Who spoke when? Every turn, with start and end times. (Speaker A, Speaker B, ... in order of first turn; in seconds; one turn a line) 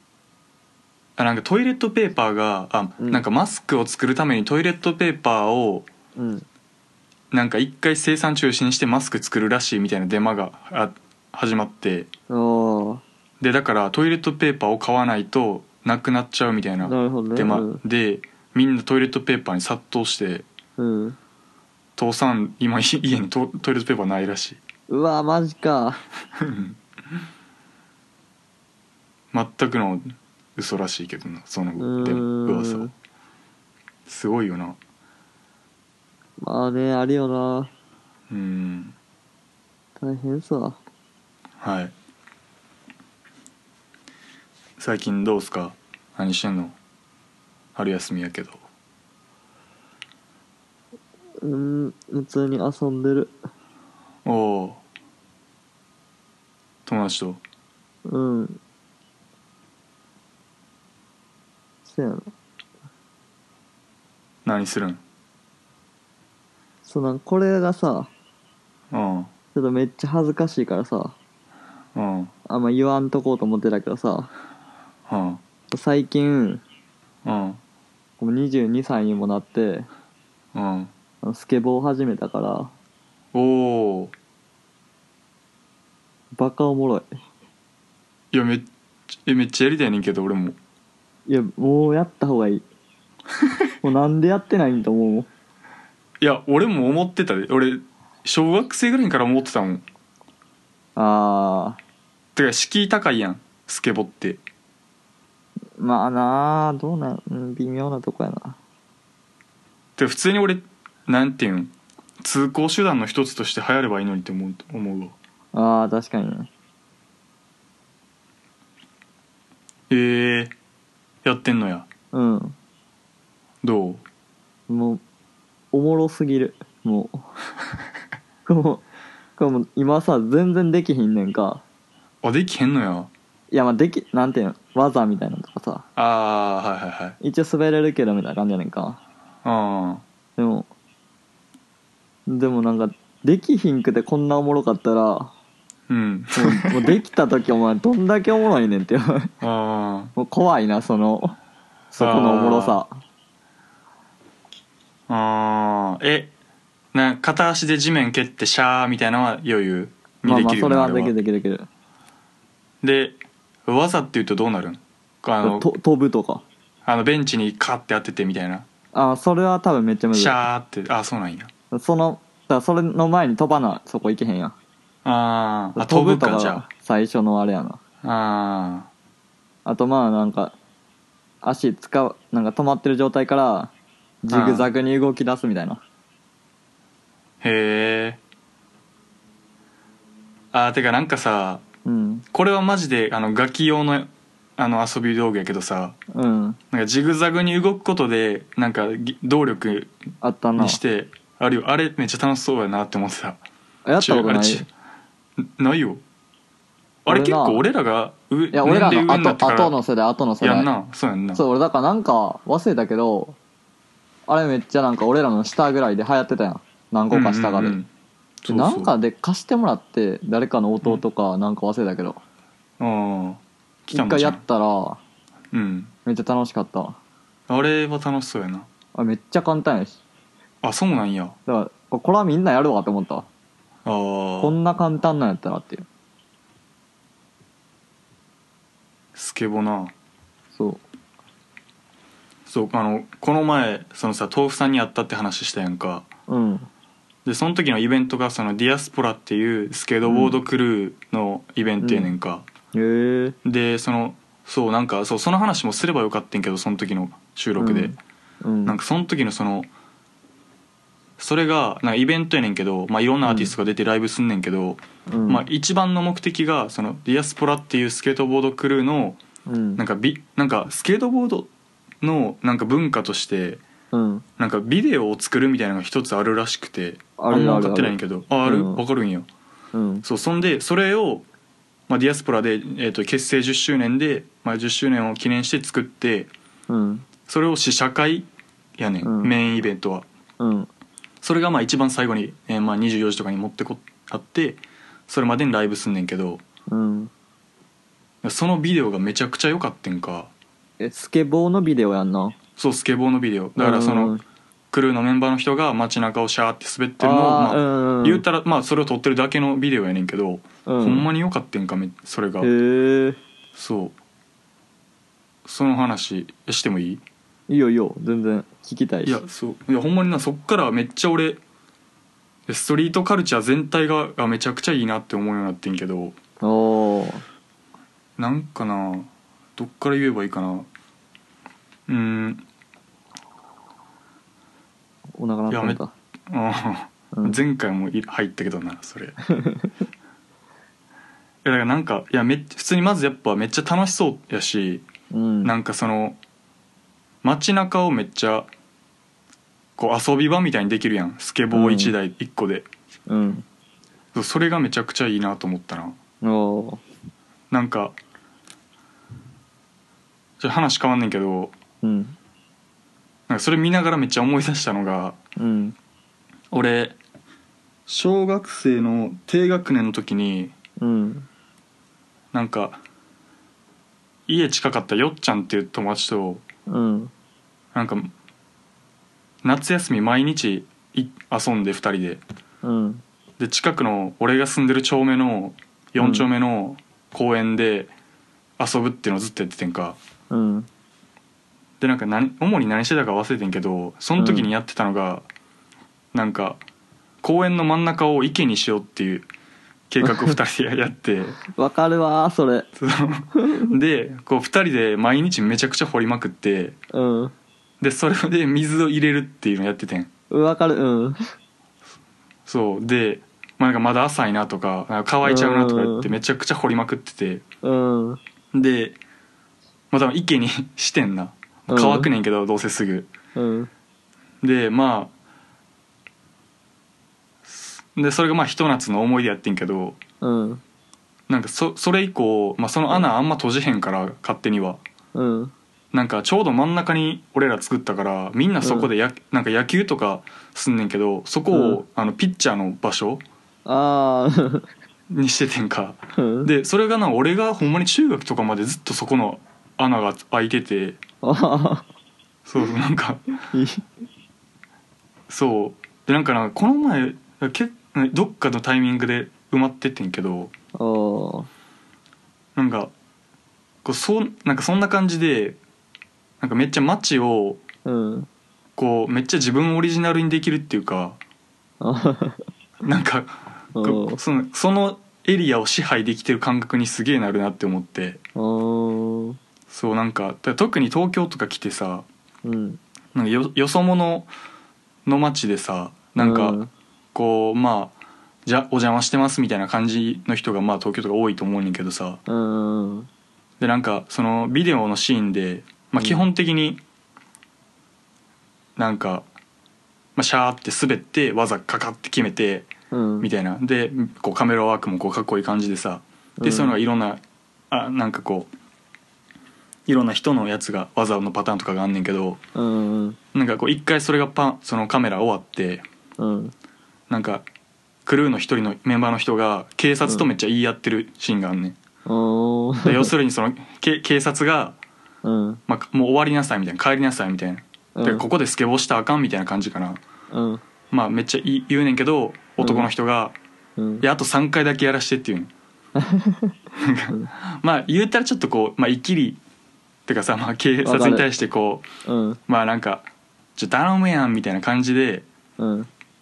Speaker A: 1.2-5.9
Speaker B: 6.2-6.5
Speaker A: 7.3-12.1
Speaker B: 12.3-13.0
Speaker A: 13.4-20.4
Speaker B: 16.8-17.8
Speaker B: 20.8-21.2
Speaker A: 22.0-24.6
Speaker B: 24.9-26.0
Speaker A: 26.3-26.8
Speaker A: 29.3-32.9
Speaker B: 31.8-32.9
Speaker A: 34.0-34.8
Speaker B: 36.4-37.7
Speaker A: 38.3-39.0
Speaker B: 40.0-40.8
Speaker A: 41.6-41.9
Speaker A: 44.8-46.8
Speaker A: 47.7-48.6
Speaker B: 51.4-53.4
Speaker A: 54.2-54.8
Speaker A: 56.9-57.4
Speaker B: 58.0-58.6
Speaker B: 61.8-62.3
Speaker A: 64.4-65.0
Speaker B: 66.8-68.1
Speaker A: 68.9-69.3
Speaker B: 69.5-71.2
Speaker A: 71.9-72.3
Speaker B: 72.5-74.3
Speaker A: 75.1-75.4
Speaker B: 75.7-76.6
Speaker A: 77.2-77.6
Speaker B: 78.2-79.9
Speaker A: 80.5-80.9
Speaker B: 81.2-82.7
Speaker A: 83.3-84.1
Speaker B: 86.3-87.1
Speaker A: 88.3-88.7
Speaker A: 89.2-90.6
Speaker B: 91.3-92.6
Speaker A: 93.4-93.6
Speaker B: 93.8-95.3
Speaker A: 96.2-99.8
Speaker B: 101.0-101.8
Speaker A: 102.3-104.4
Speaker B: 105.8-108.6
Speaker A: 110.0-115.2
Speaker B: 115.5-116.5
Speaker A: 119.9-120.5
Speaker A: 121.2-121.9
Speaker B: 122.1-122.5
Speaker A: 123.6-124.0
Speaker B: 124.7-125.0
Speaker B: 125.7-127.3
Speaker B: 128.4-128.8
Speaker B: 129.4-131.6
Speaker A: 132.2-133.1
Speaker B: 133.5-135.8
Speaker A: 135.9-137.2
Speaker B: 137.2-139.0
Speaker A: 139.4-140.0
Speaker B: 140.4-140.7
Speaker B: 142.3-145.3
Speaker A: 145.9-147.0
Speaker B: 146.3-149.3
Speaker A: 149.4-150.1
Speaker B: 150.2-151.4
Speaker B: 151.9-152.9
Speaker A: 152.0-152.8
Speaker A: 155.1-156.3
Speaker A: 156.9-161.1
Speaker B: 160.2-161.7
Speaker A: 162.8-165.7
Speaker B: 165.4-166.4
Speaker A: 166.8-168.7
Speaker B: 168.9-170.4
Speaker A: 170.1-171.5
Speaker B: 171.7-174.6
Speaker A: 175.0-176.6
Speaker B: 175.7-177.8
Speaker A: 178.0-178.9
Speaker B: 179.6-180.6
Speaker B: 181.4-183.7
Speaker B: 184.2-185.8
Speaker A: 184.3-184.7
Speaker A: 187.4-188.2
Speaker A: 190.5-191.6
Speaker B: 191.8-192.2
Speaker A: 192.3-196.0
Speaker B: 196.1-196.6
Speaker A: 196.7-199.9
Speaker B: 200.2-200.8
Speaker A: 200.6-203.4
Speaker B: 203.8-204.7
Speaker A: 204.0-204.7
Speaker A: 205.4-206.0
Speaker A: 207.0-209.7
Speaker B: 207.1-207.6
Speaker B: 208.5-210.7
Speaker A: 210.4-211.4
Speaker B: 211.3-213.4
Speaker B: 214.3-217.8
Speaker A: 217.1-217.9
Speaker A: 218.4-218.9
Speaker B: 218.5-222.2
Speaker A: 222.8-224.4
Speaker B: 223.9-225.0
Speaker A: 225.5-225.9
Speaker B: 226.1-227.0
Speaker A: 227.5-228.7
Speaker B: 228.9-230.0
Speaker A: 230.6-231.3
Speaker B: 231.5-233.3
Speaker A: 233.8-234.6
Speaker B: 234.4-235.8
Speaker A: 239.1-239.9
Speaker B: 240.5-240.8
Speaker A: 242.4-246.1
Speaker B: 246.3-246.7
Speaker A: 247.2-252.5
Speaker B: 250.0-250.3
Speaker B: 251.8-252.1
Speaker B: 252.7-253.3
Speaker A: 253.4-258.0
Speaker B: 257.6-258.8
Speaker A: 258.6-259.7
Speaker A: 261.2-269.2
Speaker B: 263.2-263.5
Speaker B: 265.1-265.4
Speaker B: 269.4-269.8
Speaker A: 269.8-271.5
Speaker A: 272.0-273.6
Speaker B: 273.9-274.2
Speaker A: 274.4-279.3
Speaker B: 277.2-278.8
Speaker B: 279.7-280.0
Speaker A: 280.0-281.2
Speaker A: 281.9-286.3
Speaker B: 286.7-287.1
Speaker A: 287.3-290.1
Speaker B: 289.0-289.3
Speaker B: 290.4-290.7
Speaker A: 291.2-296.4
Speaker B: 296.7-297.1
Speaker A: 298.2-300.3
Speaker B: 300.8-302.4
Speaker A: 302.6-304.2
Speaker B: 303.6-304.2
Speaker A: 304.7-312.5
Speaker B: 307.0-308.2
Speaker B: 310.6-311.1
Speaker B: 312.4-313.2
Speaker A: 313.5-313.9
Speaker A: 315.4-317.0
Speaker B: 317.5-319.2
Speaker A: 319.0-321.4
Speaker A: 322.5-326.2
Speaker B: 326.4-327.2
Speaker A: 328.2-330.7
Speaker A: 331.9-332.4
Speaker B: 335.1-335.9
Speaker A: 335.5-339.2
Speaker B: 339.3-339.7
Speaker A: 341.4-344.9
Speaker B: 345.1-345.5
Speaker A: 345.4-346.2
Speaker A: 347.2-348.5
Speaker A: 349.8-352.7
Speaker B: 351.5-351.9
Speaker B: 353.1-353.4
Speaker A: 354.1-356.0
Speaker B: 356.2-356.8
Speaker A: 357.5-357.9
Speaker A: 360.4-361.5
Speaker B: 361.8-362.1
Speaker A: 363.3-365.2
Speaker B: 365.4-365.8
Speaker A: 366.5-367.0
Speaker A: 367.9-370.5
Speaker B: 370.8-371.3
Speaker A: 372.3-372.8
Speaker A: 374.3-376.4
Speaker B: 376.7-377.1
Speaker A: 377.7-378.1
Speaker A: 379.4-382.2
Speaker B: 382.6-383.0
Speaker A: 383.4-387.9
Speaker B: 386.0-386.3
Speaker A: 388.6-390.0
Speaker B: 390.3-390.7
Speaker A: 391.8-395.2
Speaker B: 394.2-394.5
Speaker A: 396.1-396.6
Speaker A: 397.2-399.3
Speaker A: 399.9-401.4
Speaker B: 400.0-400.4
Speaker B: 401.5-402.7
Speaker A: 402.8-406.8
Speaker B: 403.3-403.7
Speaker B: 406.9-407.3
Speaker A: 407.8-410.1
Speaker B: 410.3-411.2
Speaker A: 412.4-417.4
Speaker B: 415.2-416.1
Speaker B: 417.6-418.2
Speaker A: 418.5-419.0
Speaker A: 419.9-423.1
Speaker B: 421.7-422.1
Speaker B: 423.4-423.7
Speaker A: 424.4-425.1
Speaker A: 427.4-430.0
Speaker B: 430.2-430.6
Speaker A: 431.3-434.8
Speaker B: 435.1-435.5
Speaker A: 435.9-443.2
Speaker B: 438.6-438.9
Speaker B: 441.5-441.8
Speaker B: 443.6-444.7
Speaker A: 445.1-451.0
Speaker B: 446.2-446.5
Speaker B: 451.2-451.9
Speaker A: 452.4-453.2
Speaker B: 453.5-453.8
Speaker A: 455.3-460.5
Speaker B: 460.8-461.5
Speaker A: 462.6-462.9
Speaker A: 463.8-465.6
Speaker A: 466.4-467.6
Speaker B: 467.9-468.3
Speaker A: 468.8-471.2
Speaker B: 471.8-472.4
Speaker A: 472.8-478.2
Speaker B: 473.7-474.2
Speaker B: 478.4-479.4
Speaker A: 479.7-482.1
Speaker B: 482.4-482.8
Speaker A: 483.1-484.3
Speaker A: 485.0-486.6
Speaker B: 486.2-486.7
Speaker A: 487.1-492.2
Speaker B: 492.3-493.1
Speaker A: 493.6-496.8
Speaker B: 496.0-496.2
Speaker A: 498.8-499.2
Speaker A: 500.1-502.7
Speaker B: 502.9-503.3
Speaker A: 503.2-507.2
Speaker B: 506.4-506.8
Speaker A: 507.7-508.5
Speaker A: 509.9-512.4
Speaker B: 512.5-513.2
Speaker A: 513.3-515.9
Speaker B: 516.2-516.5
Speaker A: 517.1-517.5
Speaker A: 518.0-521.8
Speaker B: 522.0-523.1
Speaker A: 522.8-524.8
Speaker B: 525.2-525.6
Speaker A: 525.7-530.0
Speaker B: 527.9-528.2
Speaker B: 530.3-530.6
Speaker A: 530.9-533.4
Speaker B: 532.6-532.9
Speaker B: 533.8-534.0
Speaker A: 534.0-535.5
Speaker B: 536.0-536.5
Speaker A: 536.8-539.4
Speaker A: 540.1-541.9
Speaker B: 540.8-541.3
Speaker B: 542.0-542.4
Speaker A: 542.5-545.2
Speaker B: 545.6-545.9